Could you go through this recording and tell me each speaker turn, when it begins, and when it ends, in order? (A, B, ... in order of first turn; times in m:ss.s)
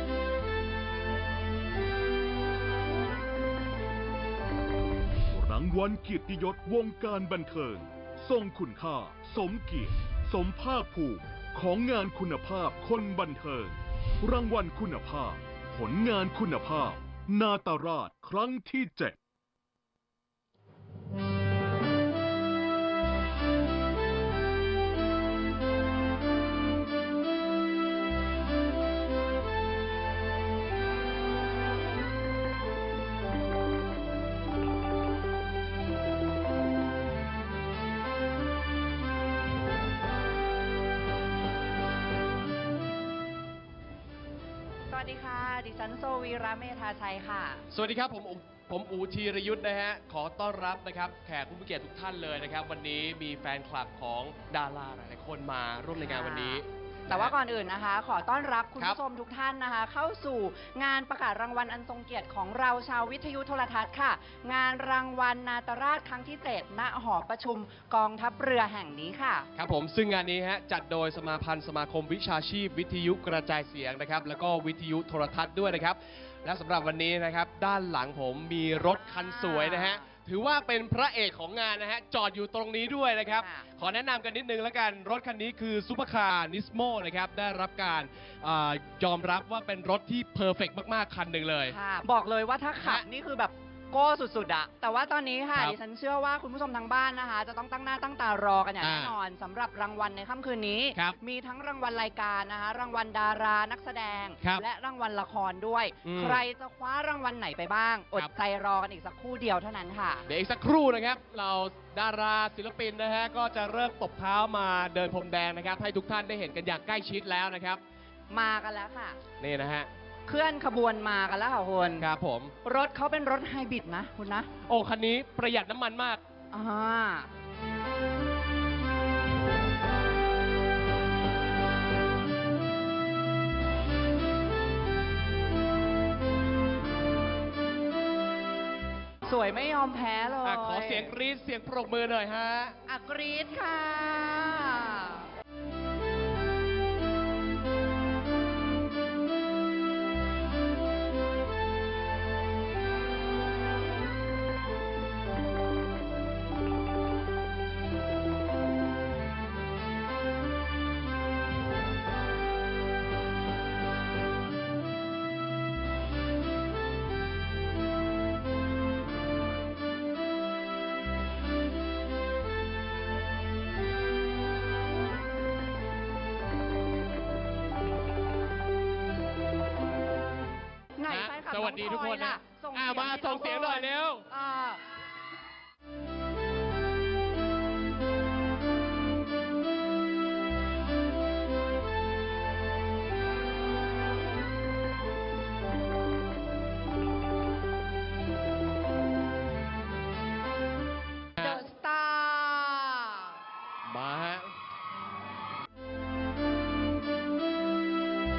0:05.3-0:19.2 A
0:44.9-0:47.6 B
0:47.7-0:57.3 C
0:55.9-1:09.5 B
1:09.5-1:31.8 C
1:18.8-1:20.0 B
1:23.4-1:23.6 B
1:31.7-1:50.2 B
1:38.8-1:39.1 C
1:46.0-1:46.4 C
1:50.2-1:57.8 C
1:58.3-1:59.2 B
1:59.4-1:59.9 C
2:00.3-2:02.1 B
2:02.0-2:02.5 C
2:02.6-2:04.5 B
2:04.6-2:06.2 C
2:06.5-2:07.3 B
2:19.2-2:21.1 B
2:20.4-2:22.8 C
2:22.9-2:25.3 B
3:01.0-3:04.8 B
3:01.1-3:04.3 C
3:21.4-3:23.4 B
3:23.8-3:24.5 C